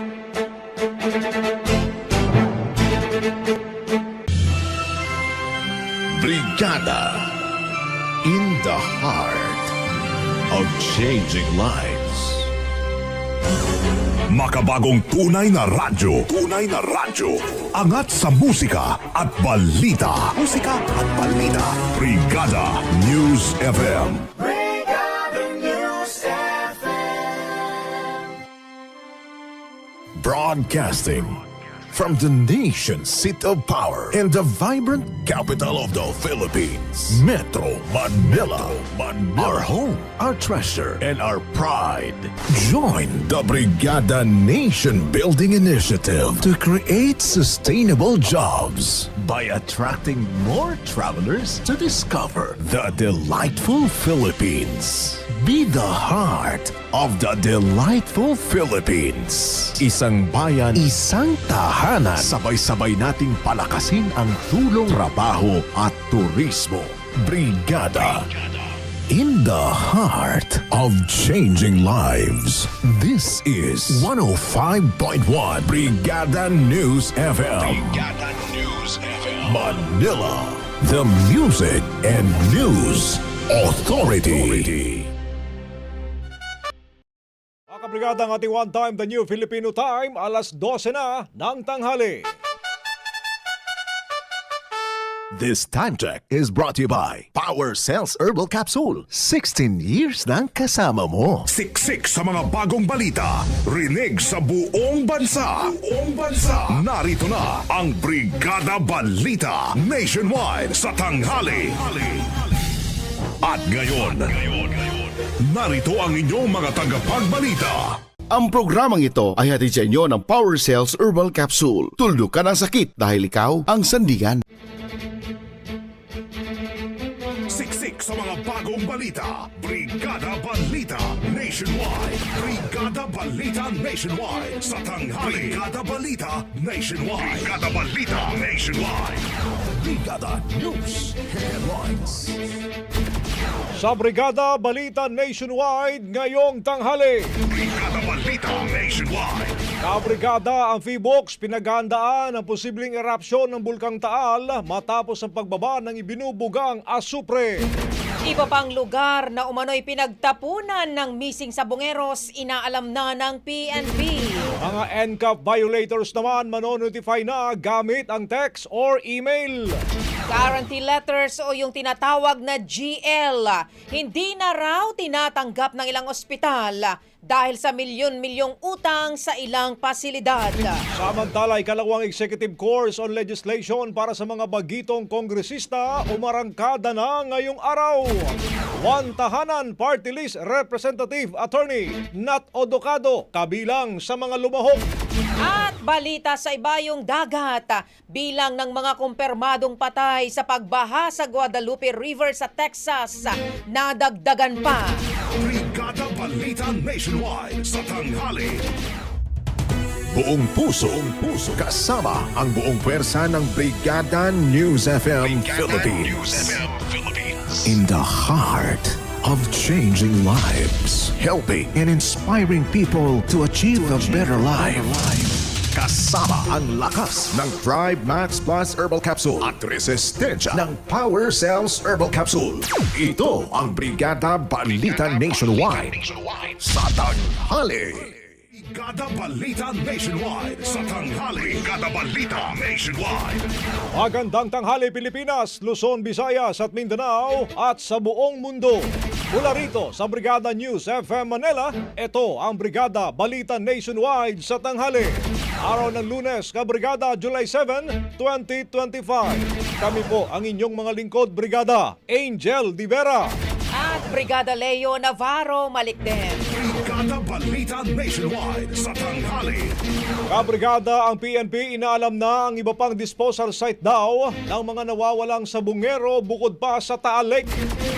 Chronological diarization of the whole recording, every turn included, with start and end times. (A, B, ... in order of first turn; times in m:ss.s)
0:06.1-0:07.3 A
0:08.2-0:09.7 A
0:10.5-0:12.5 A
0:14.3-0:24.3 B
0:30.2-0:31.4 A
0:31.9-1:08.3 A
1:09.1-1:25.1 A
1:27.7-1:32.2 C
1:35.3-1:41.4 A
1:41.5-1:52.2 B
1:53.4-1:54.8 B
1:55.4-1:58.0 B
1:58.3-2:04.4 D
2:07.5-2:19.3 B
2:15.2-2:15.6 A
2:19.8-2:22.3 A
2:23.8-2:27.3 C
2:27.4-2:29.6 B
2:29.8-2:37.6 C
2:38.2-2:44.5 E
2:44.6-2:49.8 C
2:50.3-3:00.8 E
3:00.9-3:14.8 C
3:15.4-3:25.0 E
3:25.4-3:28.6 B
3:30.1-3:58.1 A
3:58.5-4:03.4 B
4:03.9-4:23.3 C
4:23.7-4:26.4 E
4:26.5-4:29.8 B
4:30.3-4:37.5 C